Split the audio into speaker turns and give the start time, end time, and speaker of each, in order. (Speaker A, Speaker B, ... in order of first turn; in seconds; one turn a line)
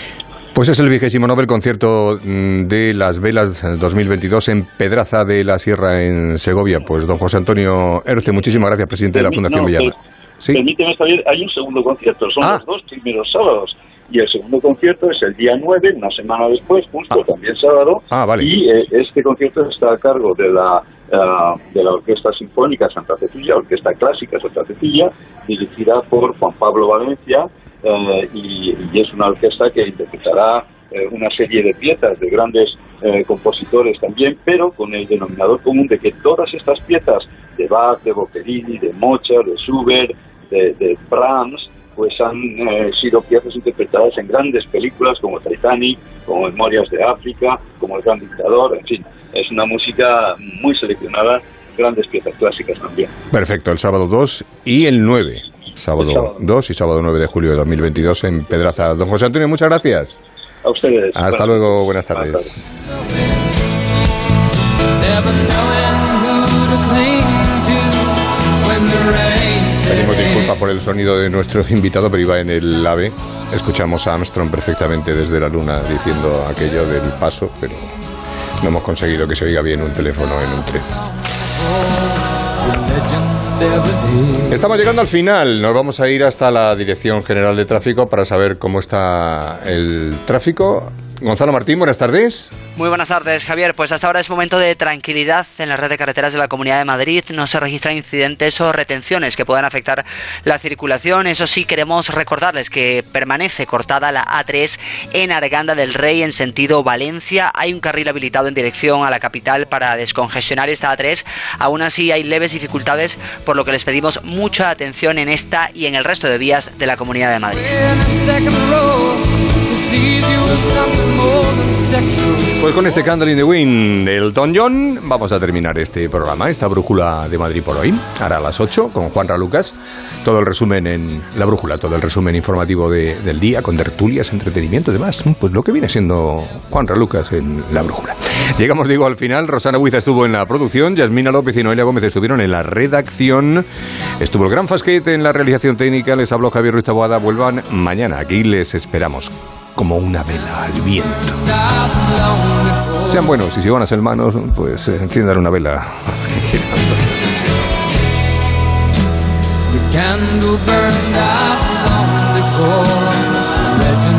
Speaker A: 0.6-9.9
Speaker B: 9.1-9.9
Speaker B: 10.5-53.1
Speaker A: 18.1-18.5
Speaker A: 53.3-60.2
Speaker B: 56.0-56.3
Speaker B: 60.6-62.5
Speaker A: 61.1-62.7
Speaker A: 69.8-77.8
Speaker A: 78.6-80.9
Speaker A: 84.5-92.5
Speaker C: 92.8-117.8
Speaker A: 122.6-143.7
Speaker A: 144.2-151.4
Speaker A: 153.1-157.3